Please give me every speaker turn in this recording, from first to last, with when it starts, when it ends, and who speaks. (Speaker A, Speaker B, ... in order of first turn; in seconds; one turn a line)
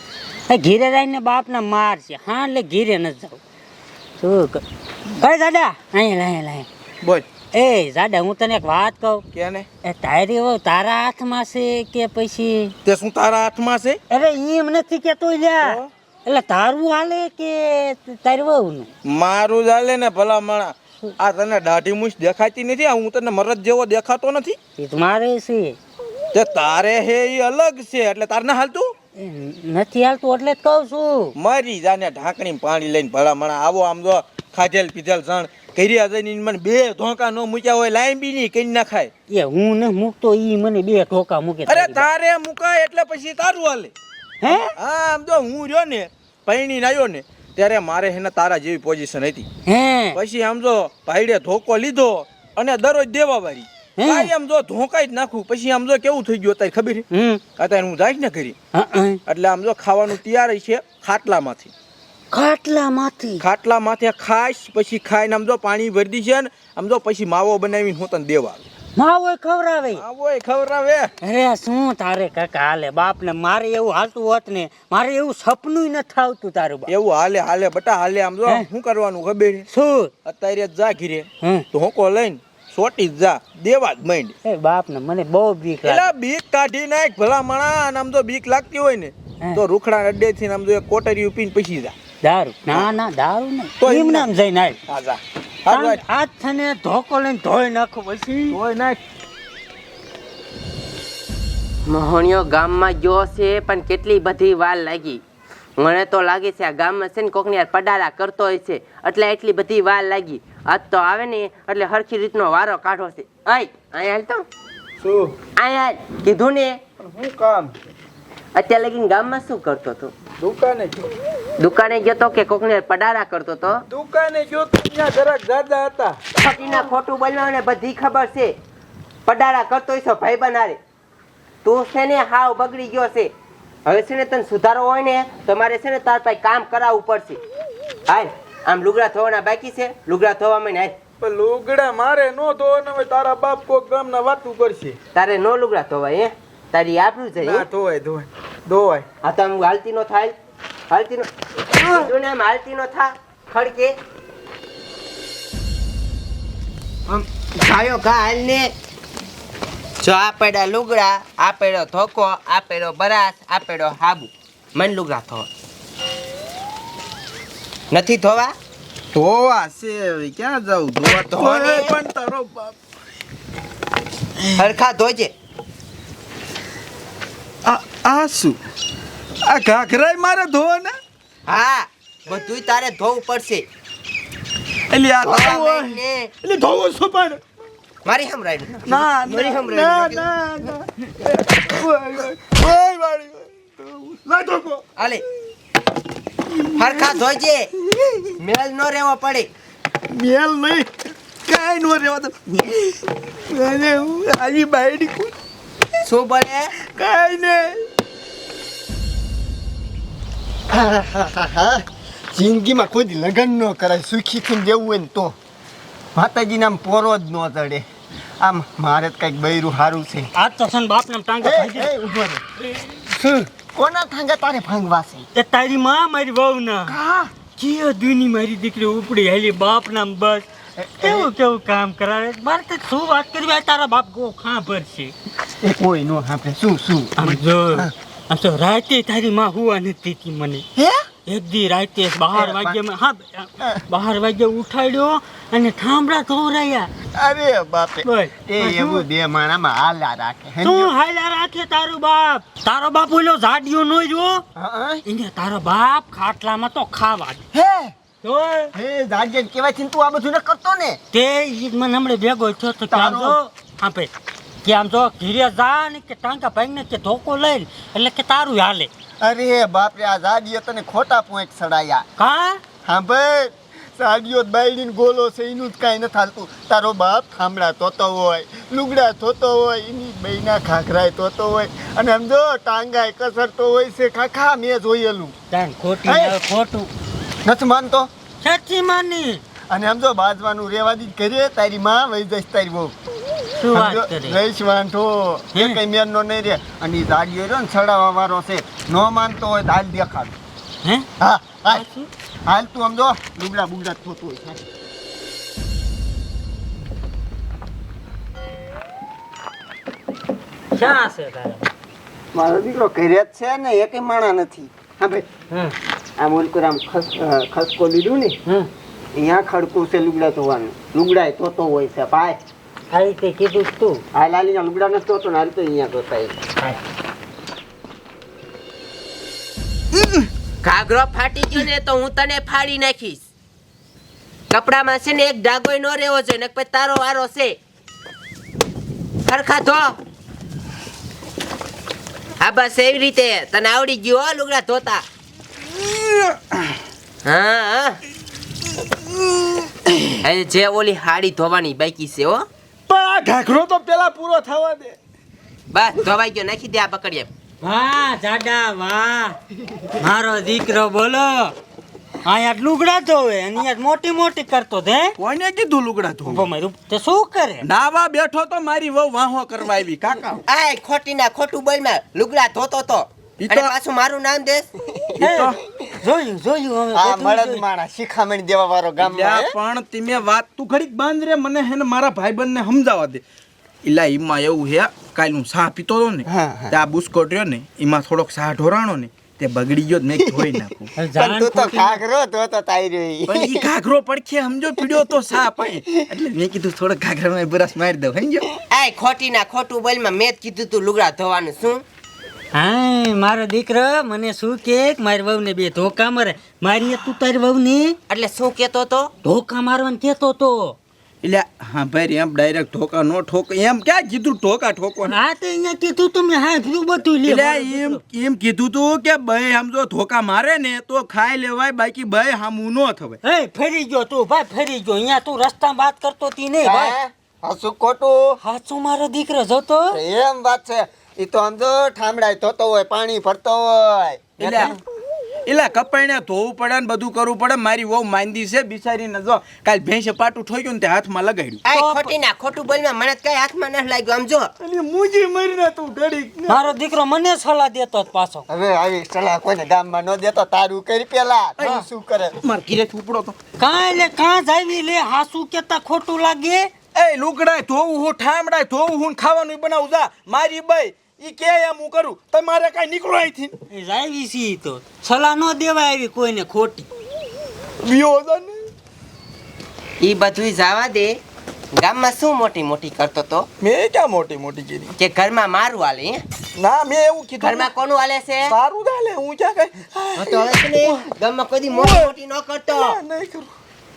Speaker A: 0.5-3.4
Speaker A: 4.2-6.7
Speaker B: 7.0-7.3
Speaker A: 7.5-9.2
Speaker B: 9.3-9.7
Speaker A: 9.8-12.7
Speaker B: 12.8-14.0
Speaker A: 14.1-18.9
Speaker B: 15.6-15.9
Speaker B: 19.1-24.6
Speaker A: 24.8-25.8
Speaker B: 26.3-28.9
Speaker A: 29.2-31.4
Speaker B: 31.4-39.1
Speaker A: 39.3-42.1
Speaker B: 41.7-43.9
Speaker A: 44.4-44.7
Speaker B: 44.5-49.5
Speaker A: 49.7-50.2
Speaker B: 50.1-57.0
Speaker A: 54.0-54.3
Speaker A: 57.1-57.4
Speaker B: 57.6-58.5
Speaker A: 58.7-59.2
Speaker B: 59.2-61.7
Speaker A: 62.3-63.4
Speaker B: 63.4-68.6
Speaker A: 69.0-70.0
Speaker B: 69.9-71.1
Speaker A: 71.2-76.9
Speaker B: 76.9-79.7
Speaker A: 79.7-80.1
Speaker B: 80.2-84.3
Speaker A: 84.4-86.1
Speaker B: 85.8-91.9
Speaker A: 92.2-94.8
Speaker B: 93.8-94.3
Speaker B: 94.9-96.0
Speaker A: 95.7-98.6
Speaker B: 98.5-99.0
Speaker C: 101.9-105.2
Speaker C: 105.8-114.5
Speaker B: 115.0-115.4
Speaker C: 115.6-116.8
Speaker B: 117.0-117.7
Speaker C: 118.5-120.1
Speaker B: 120.4-121.1
Speaker C: 121.6-123.8
Speaker B: 123.9-126.2
Speaker C: 126.4-128.5
Speaker C: 129.2-130.8
Speaker C: 131.6-133.3
Speaker C: 133.8-137.4
Speaker C: 138.1-140.9
Speaker B: 141.2-145.0
Speaker C: 145.2-147.7
Speaker B: 147.4-149.1
Speaker C: 149.2-150.3
Speaker C: 150.9-153.9
Speaker C: 157.1-158.7
Speaker C: 160.0-165.5
Speaker C: 167.9-168.5
Speaker B: 169.1-172.8
Speaker C: 171.3-171.9
Speaker C: 174.6-175.3
Speaker B: 177.6-178.6
Speaker B: 179.4-181.0
Speaker C: 181.5-183.7
Speaker B: 184.9-187.4
Speaker C: 185.2-186.3
Speaker C: 188.0-190.3
Speaker B: 188.8-194.8
Speaker C: 195.0-195.2
Speaker B: 196.5-197.2
Speaker C: 196.8-197.7
Speaker B: 197.8-198.4
Speaker C: 198.4-199.5
Speaker B: 200.1-200.9
Speaker B: 201.4-205.3
Speaker C: 206.0-206.7
Speaker B: 206.8-207.8
Speaker D: 210.7-215.3
Speaker D: 216.2-217.8
Speaker D: 218.4-220.3
Speaker A: 220.3-221.9
Speaker D: 221.4-225.3
Speaker A: 225.3-226.9
Speaker D: 226.8-227.3
Speaker A: 227.5-230.4
Speaker D: 230.8-231.3
Speaker A: 231.0-235.1
Speaker D: 235.6-237.9
Speaker A: 237.2-240.7
Speaker D: 240.8-241.1
Speaker A: 241.3-246.9
Speaker D: 242.3-242.8
Speaker D: 247.1-250.9
Speaker A: 248.0-249.0
Speaker A: 250.6-254.4
Speaker D: 254.5-255.0
Speaker A: 255.1-257.4
Speaker D: 257.5-257.9
Speaker A: 258.2-258.7
Speaker D: 258.8-261.0
Speaker A: 261.1-264.1
Speaker D: 262.9-263.4
Speaker A: 264.6-268.9
Speaker D: 269.2-272.1
Speaker A: 272.2-272.6
Speaker D: 272.9-285.4
Speaker A: 285.5-286.9
Speaker D: 286.1-286.4
Speaker D: 287.4-288.1
Speaker A: 288.4-289.4
Speaker D: 289.7-293.0
Speaker A: 293.6-294.4
Speaker D: 293.7-300.4
Speaker A: 295.5-295.8
Speaker D: 301.2-301.9
Speaker A: 301.7-302.1
Speaker D: 302.5-304.6
Speaker A: 310.7-311.7
Speaker D: 312.3-315.3
Speaker A: 315.5-315.8
Speaker D: 316.2-318.4
Speaker D: 319.1-322.4
Speaker A: 322.9-324.0
Speaker D: 324.1-326.4
Speaker C: 330.6-333.3
Speaker C: 334.5-337.6
Speaker C: 339.3-340.0
Speaker C: 342.4-345.0
Speaker B: 345.7-346.8
Speaker C: 347.2-348.0
Speaker B: 349.2-350.1
Speaker C: 350.2-352.5
Speaker B: 352.9-355.0
Speaker C: 355.7-357.3
Speaker A: 357.6-359.4
Speaker A: 359.9-361.5
Speaker A: 362.2-365.2
Speaker B: 365.2-366.5
Speaker A: 366.3-367.7
Speaker B: 367.6-370.4
Speaker C: 370.5-374.7
Speaker B: 373.4-373.7
Speaker D: 375.0-375.8
Speaker A: 375.2-377.6
Speaker B: 375.2-375.6
Speaker D: 376.9-379.5
Speaker B: 379.0-383.2
Speaker B: 383.8-390.9
Speaker D: 386.3-386.8
Speaker D: 390.2-393.7
Speaker A: 391.0-392.0
Speaker B: 393.3-398.5
Speaker C: 398.7-401.8
Speaker A: 402.5-408.0
Speaker C: 408.1-409.1
Speaker A: 409.2-410.8
Speaker B: 411.2-415.2
Speaker A: 415.0-418.0
Speaker B: 417.2-423.2
Speaker A: 423.2-426.9
Speaker D: 426.6-428.4
Speaker A: 428.4-430.0
Speaker D: 429.9-434.7
Speaker B: 434.4-434.7
Speaker A: 434.4-434.8
Speaker B: 435.5-441.6
Speaker C: 441.6-444.5
Speaker A: 441.7-442.1
Speaker B: 444.6-446.6
Speaker A: 446.5-448.5
Speaker D: 448.5-452.4
Speaker B: 451.6-451.9
Speaker B: 452.4-453.4
Speaker A: 453.6-456.7
Speaker B: 456.9-463.5
Speaker A: 463.7-466.9
Speaker B: 467.8-468.7
Speaker C: 470.0-471.2
Speaker C: 471.8-473.5
Speaker B: 473.6-475.0
Speaker C: 475.0-476.2
Speaker B: 476.6-477.7
Speaker C: 477.4-478.5
Speaker B: 478.5-481.1
Speaker C: 480.2-483.0
Speaker B: 481.7-482.1
Speaker B: 482.7-483.5